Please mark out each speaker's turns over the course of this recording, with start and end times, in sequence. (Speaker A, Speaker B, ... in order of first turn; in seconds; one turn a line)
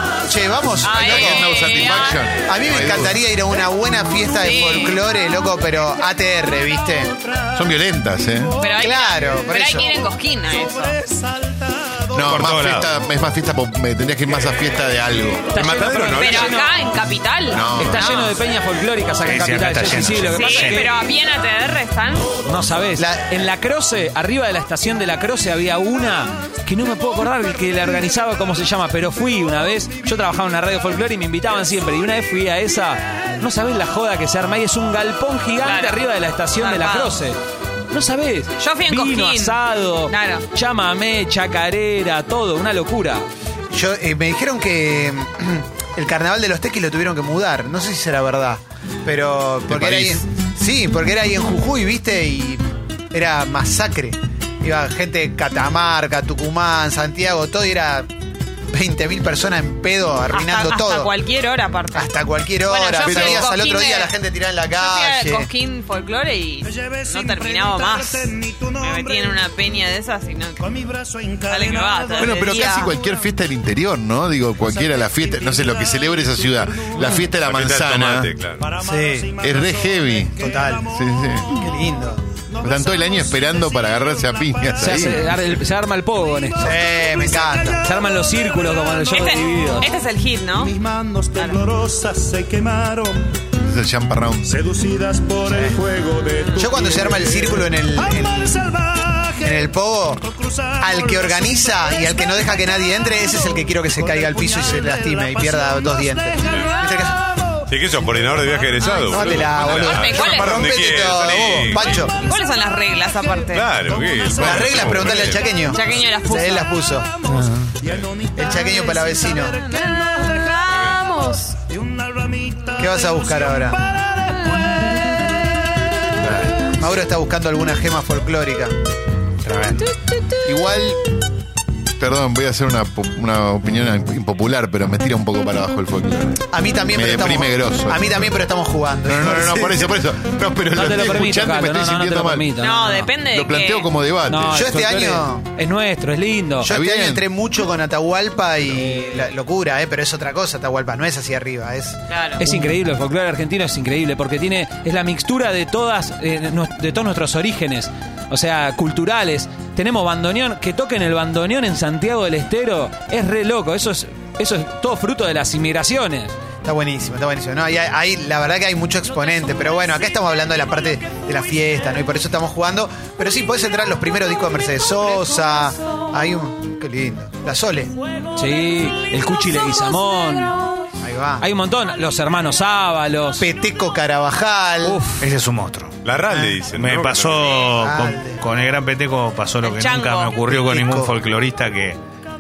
Speaker A: 0.3-1.7
Speaker B: 0.8-2.3
Speaker C: 0.9-3.2
Speaker A: 2.4-7.1
Speaker B: 4.4-5.0
Speaker C: 7.5-8.5
Speaker B: 8.6-11.0
Speaker A: 8.8-9.9
Speaker D: 10.5-12.4
Speaker C: 12.1-15.5
Speaker E: 12.2-12.9
Speaker F: 15.5-16.8
Speaker G: 15.5-16.6
Speaker B: 16.1-18.3
Speaker C: 17.5-18.1
Speaker F: 17.7-20.9
Speaker E: 19.2-20.9
Speaker B: 20.3-22.4
Speaker F: 22.4-37.4
Speaker A: 23.0-23.3
Speaker B: 35.6-37.2
Speaker F: 37.9-43.3
Speaker B: 38.6-40.5
Speaker A: 43.7-58.1
Speaker C: 49.7-50.2
Speaker A: 58.7-61.1
Speaker B: 60.3-64.2
Speaker A: 61.9-65.5
Speaker C: 63.1-63.5
Speaker B: 64.7-70.7
Speaker D: 66.6-69.4
Speaker D: 70.6-73.0
Speaker B: 71.5-72.9
Speaker C: 72.2-78.3
Speaker D: 74.6-77.3
Speaker G: 77.4-78.6
Speaker D: 78.6-89.9
Speaker A: 78.8-79.3
Speaker C: 79.4-81.5
Speaker A: 80.4-80.9
Speaker A: 81.5-82.2
Speaker C: 82.6-85.4
Speaker F: 84.8-86.7
Speaker A: 86.6-87.9
Speaker F: 87.8-89.9
Speaker B: 89.1-90.7
Speaker D: 90.5-93.3
Speaker C: 93.6-94.6
Speaker D: 94.4-109.7
Speaker A: 95.5-95.8
Speaker A: 96.6-98.7
Speaker A: 99.4-100.3
Speaker A: 100.8-107.2
Speaker G: 107.7-112.1
Speaker A: 109.1-112.2
Speaker B: 109.7-110.8
Speaker B: 112.1-113.8
Speaker D: 113.0-115.7
Speaker G: 113.5-115.7
Speaker A: 114.3-117.7
Speaker B: 115.7-116.8
Speaker D: 117.0-120.8
Speaker A: 118.3-119.6
Speaker B: 119.5-121.6
Speaker G: 120.7-121.0
Speaker D: 121.7-126.2
Speaker A: 122.8-123.8
Speaker B: 124.4-125.3
Speaker E: 126.2-126.6
Speaker A: 126.7-128.8
Speaker E: 129.4-129.9
Speaker B: 130.0-130.6
Speaker C: 130.4-131.0
Speaker C: 132.0-138.4
Speaker A: 136.5-139.9
Speaker C: 139.1-142.5
Speaker F: 140.7-143.1
Speaker B: 142.6-143.9
Speaker C: 143.3-144.6
Speaker F: 144.3-146.7
Speaker A: 144.5-145.5
Speaker A: 146.6-152.0
Speaker C: 146.7-147.2
Speaker B: 152.1-152.4
Speaker F: 152.4-166.3
Speaker A: 166.6-177.9
Speaker F: 178.4-180.6
Speaker A: 181.0-181.5
Speaker F: 181.4-183.5
Speaker A: 183.4-185.1
Speaker F: 184.8-185.2
Speaker E: 185.2-186.0
Speaker G: 186.0-187.7
Speaker A: 186.3-186.6
Speaker E: 186.7-192.0
Speaker A: 187.7-188.4
Speaker B: 189.6-190.4
Speaker A: 190.4-191.1